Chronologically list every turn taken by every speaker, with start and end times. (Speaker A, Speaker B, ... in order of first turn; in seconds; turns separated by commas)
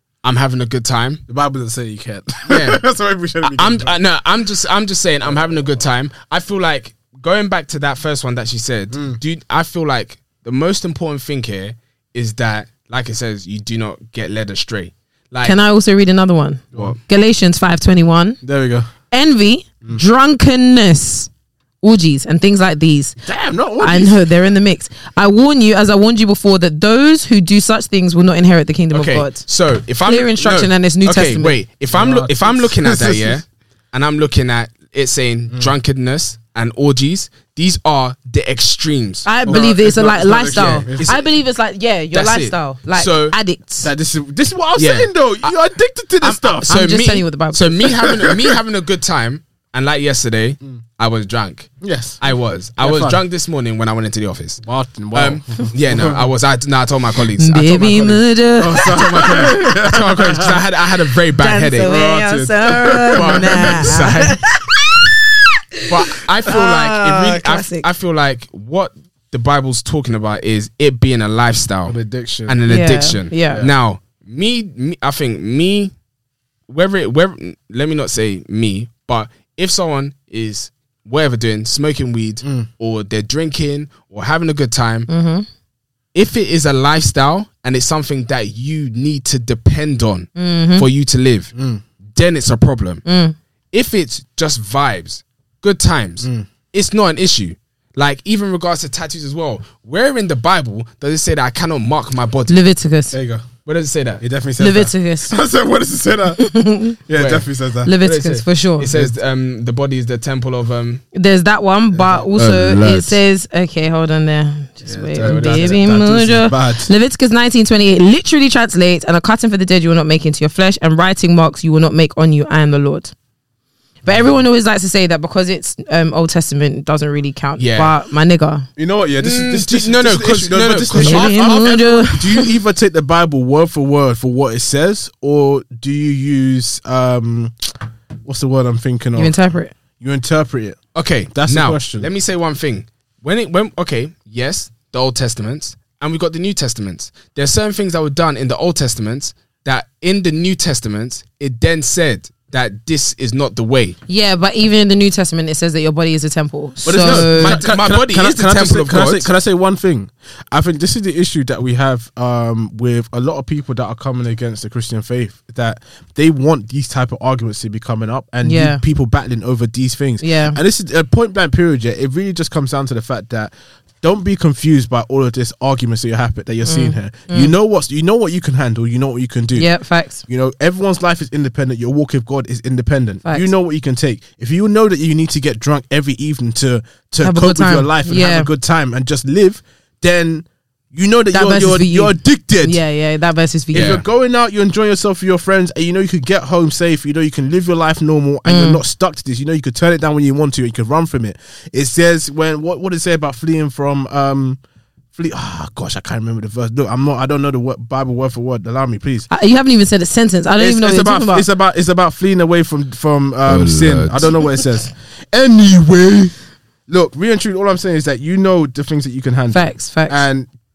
Speaker A: 0.2-1.2, Speaker B: 1.3-3.9, Speaker A: 2.5-2.8, Speaker A: 3.4-15.6, Speaker B: 5.2-5.8, Speaker B: 8.9-9.2, Speaker C: 15.4-18.4, Speaker B: 18.4-18.9, Speaker C: 19.1-21.3, Speaker C: 21.8-23.2, Speaker B: 23.2-24.3, Speaker C: 23.8-29.4, Speaker A: 28.9-39.3, Speaker C: 30.1-31.6, Speaker B: 31.9-33.4, Speaker C: 39.2-43.9, Speaker B: 39.5-41.2, Speaker A: 40.5-41.3, Speaker A: 42.1-43.4, Speaker B: 43.8-46.8, Speaker A: 44.8-45.5, Speaker A: 46.2-54.6, Speaker C: 46.7-48.0, Speaker B: 47.8-48.6, Speaker B: 51.8-52.2, Speaker B: 52.8-53.2, Speaker B: 54.6-56.2, Speaker A: 55.1-62.0, Speaker C: 57.4-59.5, Speaker B: 58.6-60.7, Speaker C: 61.4-65.1, Speaker B: 61.8-64.2, Speaker A: 63.1-64.4, Speaker C: 65.8-67.9, Speaker A: 65.9-75.9, Speaker B: 71.8-72.6, Speaker C: 72.7-73.7, Speaker A: 76.7-85.1, Speaker B: 82.4-82.7, Speaker C: 85.1-85.5, Speaker A: 86.1-91.5, Speaker C: 90.4-90.9, Speaker B: 91.5-91.8, Speaker A: 92.1-93.0, Speaker C: 93.1-93.4, Speaker A: 93.7-102.6, Speaker B: 96.2-96.5, Speaker C: 102.5-103.2, Speaker B: 103.1-103.5, Speaker A: 103.7-104.2, Speaker B: 104.2-106.5, Speaker C: 104.6-105.4, Speaker C: 106.4-107.0, Speaker B: 107.1-108.0, Speaker A: 107.1-111.0, Speaker C: 107.8-108.9, Speaker C: 111.1-123.1, Speaker B: 111.9-112.3, Speaker A: 112.4-113.2, Speaker B: 114.8-116.9, Speaker A: 115.2-115.8, Speaker C: 124.0-128.7, Speaker A: 127.6-128.0, Speaker B: 128.8-139.5, Speaker A: 129.2-131.4, Speaker C: 130.9-132.5, Speaker C: 139.2-139.7, Speaker B: 140.0-140.8, Speaker A: 140.9-154.0, Speaker B: 141.3-142.1, Speaker C: 154.1-157.6, Speaker B: 156.8-179.7, Speaker A: 157.0-159.3, Speaker C: 168.4-168.8, Speaker C: 170.2-170.6, Speaker C: 176.7-177.5, Speaker C: 179.6-180.2, Speaker B: 180.3-192.8, Speaker C: 187.2-188.5, Speaker C: 191.3-194.0, Speaker B: 193.7-204.6, Speaker A: 193.7-194.0, Speaker C: 198.5-198.8, Speaker B: 205.1-209.3, Speaker C: 209.3-211.5, Speaker B: 210.6-216.3, Speaker A: 213.5-214.4, Speaker B: 216.9-220.5, Speaker C: 219.5-220.3